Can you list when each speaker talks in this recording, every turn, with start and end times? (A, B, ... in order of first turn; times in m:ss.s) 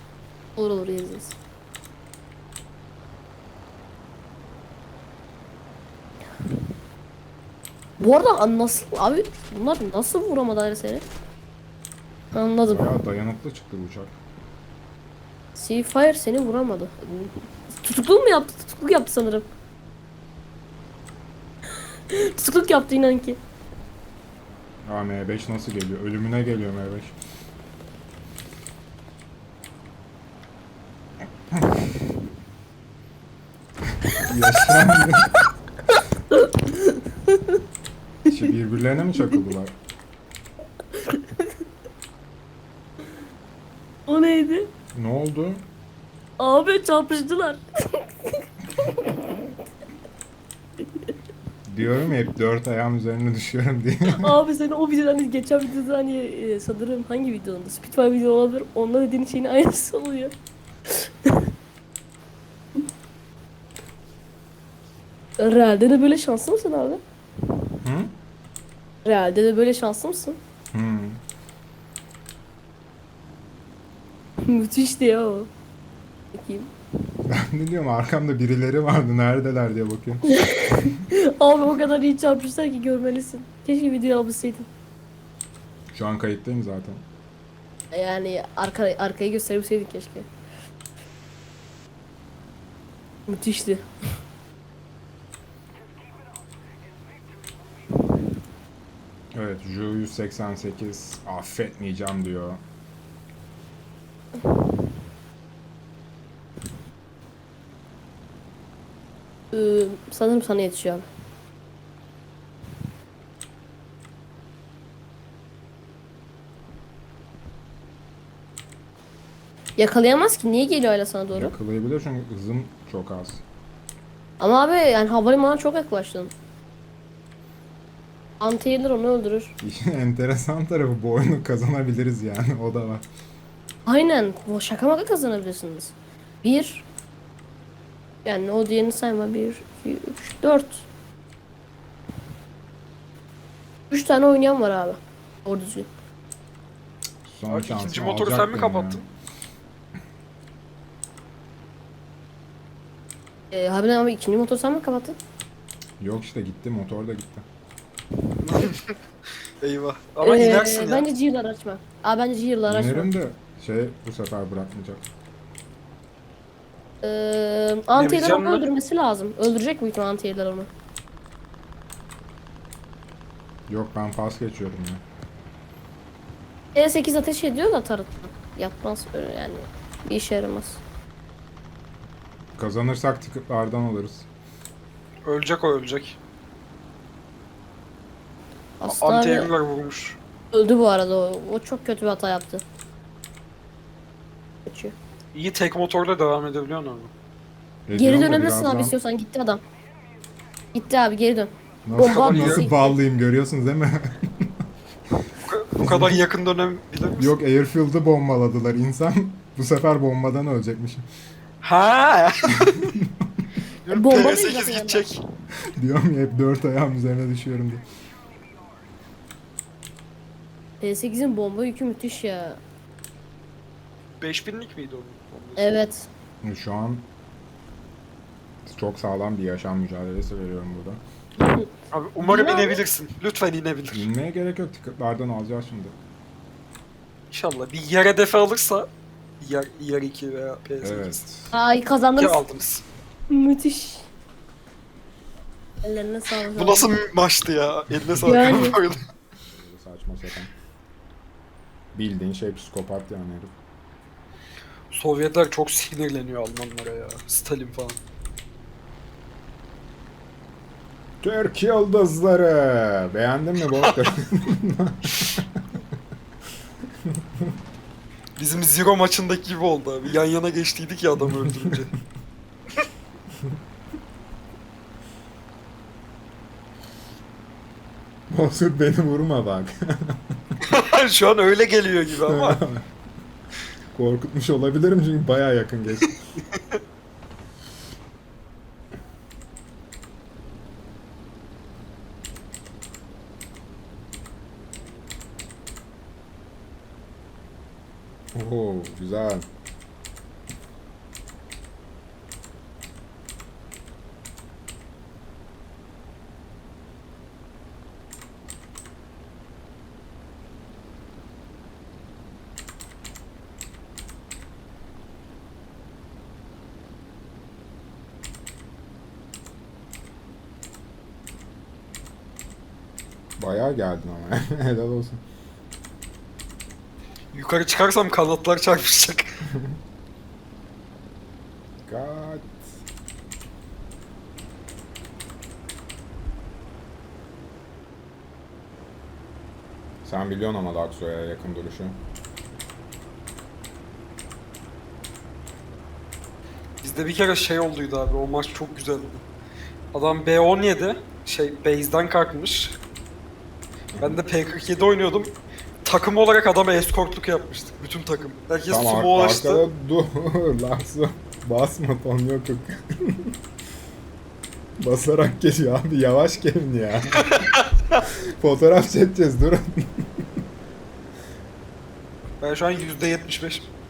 0:00.6-0:01.4 A
0:08.0-0:11.0 A
0:12.3-0:12.9 A
0:12.6-0:14.1 B
0:15.6-0:19.5 A
0:22.1-0:23.4 A
0:24.8-0:27.2 B
0:34.2-0:35.4 B
0:36.3-0:37.6 A
0:38.3-0:39.7 B
0:41.0-0:41.3 A
0:44.1-0:44.7 A
0:44.9-0:45.6 B
0:46.4-0:49.4 A
0:51.7-0:54.3 B
0:54.1-1:00.3 A
1:00.9-1:01.5 A
1:05.4-1:07.0 A
1:07.8-1:08.1 B
1:09.0-1:10.4 A
1:10.7-1:11.2 B
1:14.4-1:15.5 A
1:16.3-1:16.7 A
1:17.3-1:20.4 B
1:20.3-1:24.7 A
1:25.9-1:27.0 B
1:27.9-1:30.3 A
1:33.3-1:33.8 A
1:39.3-1:42.6 B
1:49.5-1:51.0 A
1:59.8-2:01.5 A
2:01.3-2:03.4 B
2:04.4-2:06.3 A
2:08.4-2:09.5 A
2:09.6-2:13.0 B
2:13.9-2:16.8 A
2:18.2-2:20.8 A
2:23.9-2:25.9 A
2:27.2-2:29.0 B
2:27.5-2:29.0 C
2:33.5-2:35.2 A
2:36.0-2:37.4 B
2:38.4-2:38.9 C
2:39.6-2:41.1 C
2:40.2-2:43.1 A
2:42.7-2:45.1 B
2:47.0-2:50.7 A
2:47.9-2:48.6 C
2:53.7-2:55.0 B
2:56.7-3:00.8 A
3:02.6-3:04.3 B
3:05.2-3:06.2 C
3:08.8-3:09.5 A
3:08.9-3:10.2 C
3:10.5-3:12.6 A
3:14.6-3:14.9 A
3:15.3-3:17.1 C
3:17.9-3:19.0 B
3:17.9-3:19.6 A
3:20.7-3:23.0 A
3:21.8-3:24.5 B
3:22.0-3:22.7 C
3:25.4-3:27.4 C
3:25.8-3:26.2 B
3:27.2-3:31.0 B
3:31.6-3:32.8 C
3:32.6-3:33.3 B
3:33.8-3:35.2 C
3:33.9-3:35.1 A
3:35.8-3:37.8 B
3:40.8-3:42.6 A
3:44.2-3:45.8 C
3:45.6-3:46.1 A
3:46.4-3:47.1 B
3:48.6-3:51.0 B
3:51.4-3:51.7 A
3:51.9-3:54.1 C
3:52.2-3:52.8 A
3:53.9-3:56.0 B
3:57.3-3:58.9 C
3:59.4-4:01.2 C
4:00.8-4:01.6 B
4:01.5-4:02.4 A
4:02.2-4:02.8 C
4:03.3-4:04.1 A
4:05.8-4:06.9 A
4:06.5-4:09.0 C
4:08.2-4:08.8 A
4:09.4-4:10.5 B
4:11.9-4:13.5 B
4:14.9-4:18.0 C
4:21.2-4:25.6 B
4:28.4-4:31.9 C
4:38.3-4:40.4 B
4:40.6-4:42.6 C
4:42.3-4:42.9 B
4:43.9-4:46.2 B
4:46.0-4:46.8 C
4:58.3-4:59.5 B
5:23.4-5:25.2 B
5:27.3-5:29.3 C
5:29.5-5:29.8 B
5:31.8-5:32.7 B
5:40.0-5:42.0 B
5:46.8-5:49.2 C
5:49.9-5:52.8 C
5:53.9-5:54.2 B
5:54.0-5:55.3 C
5:55.8-5:59.6 C
5:58.7-6:03.3 B
6:04.8-6:07.3 B
6:07.2-6:08.0 C
6:08.0-6:10.2 B
6:12.4-6:13.7 C